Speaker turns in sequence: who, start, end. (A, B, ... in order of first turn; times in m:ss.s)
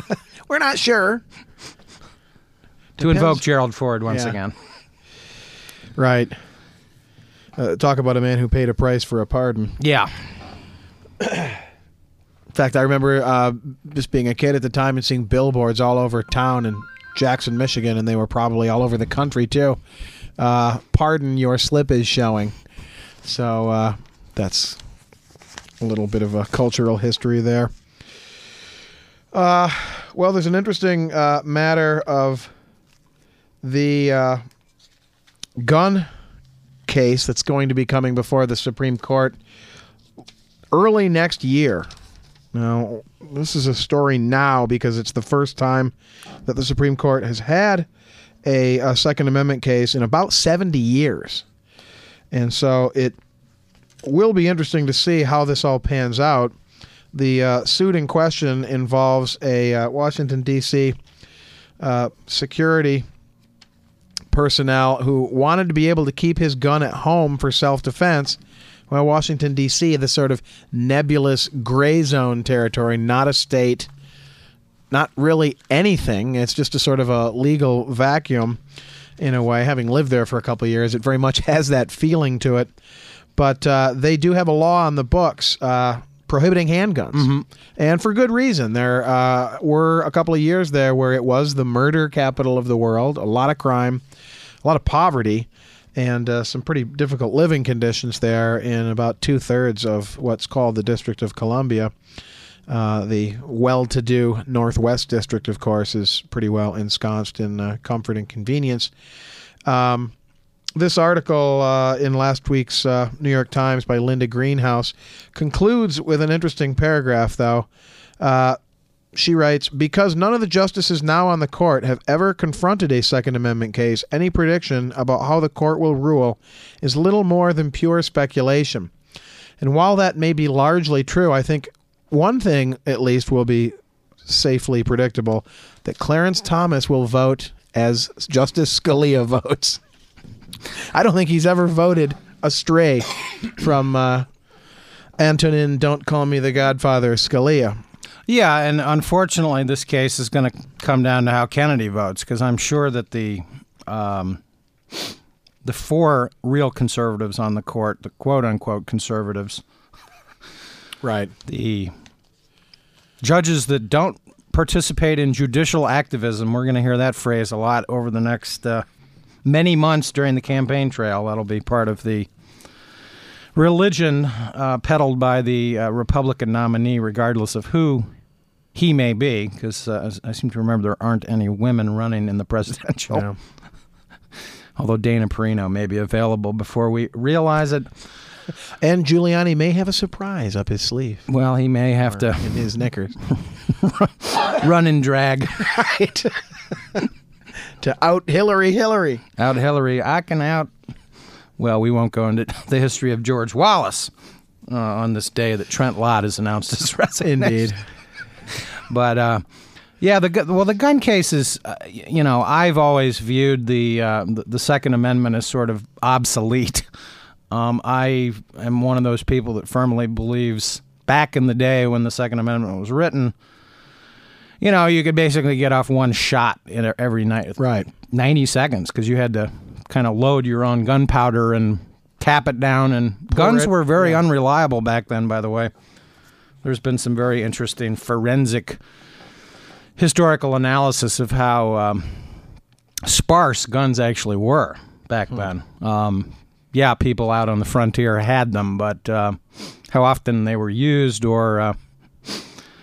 0:00.4-0:01.2 A
0:03.0-0:03.4 A
0:03.0-0:04.6 B
0:04.1-0:04.4 A
0:06.0-0:06.4 A
0:07.6-0:09.8 A
0:09.8-0:10.1 B
0:11.2-0:11.6 A
0:12.5-0:19.8 A
0:20.4-0:22.6 A
0:23.2-0:24.8 A
0:25.8-0:27.7 A
0:29.3-0:32.5 A
0:33.6-0:34.4 A
0:35.6-0:36.1 A
0:36.9-0:39.4 A
0:40.7-0:41.9 A
0:42.5-0:45.9 A
0:46.4-0:47.9 A
0:48.4-0:51.4 A
0:52.3-0:53.2 A
0:54.0-0:56.6 A
0:57.1-1:01.0 A
1:01.8-1:03.1 A
1:04.3-1:13.9 A
1:14.9-1:18.6 A
1:19.2-1:22.7 A
1:23.4-1:34.0 A
1:27.1-1:27.5 B
1:34.6-1:41.9 A
1:42.7-1:48.9 A
1:49.6-1:50.1 A
1:50.8-1:57.7 A
1:58.2-1:58.6 A
1:59.1-2:08.9 A
2:09.6-2:19.8 A
2:20.7-2:24.3 A
2:25.2-2:27.8 A
2:28.3-2:34.4 B
2:35.6-2:39.6 B
2:41.0-2:41.3 A
2:41.5-2:41.9 B
2:43.2-2:48.8 B
2:49.4-2:52.3 B
2:53.6-2:58.1 B
2:58.8-3:03.3 B
3:03.1-3:03.4 A
3:04.8-3:07.9 B
3:08.8-3:11.3 A
3:11.3-3:12.6 B
3:12.1-3:13.2 A
3:13.3-3:15.7 B
3:15.7-3:16.3 A
3:17.8-3:19.2 A
3:19.4-3:20.7 B
3:21.6-3:24.1 B
3:24.7-3:27.7 B
3:27.2-3:27.8 A
3:28.5-3:29.4 B
3:30.0-3:36.8 B
3:37.5-3:43.3 B
3:44.6-3:55.7 B
3:47.6-3:47.9 A
3:53.3-3:54.2 A
3:56.6-3:58.8 B
4:00.0-4:02.3 B
4:03.0-4:12.4 B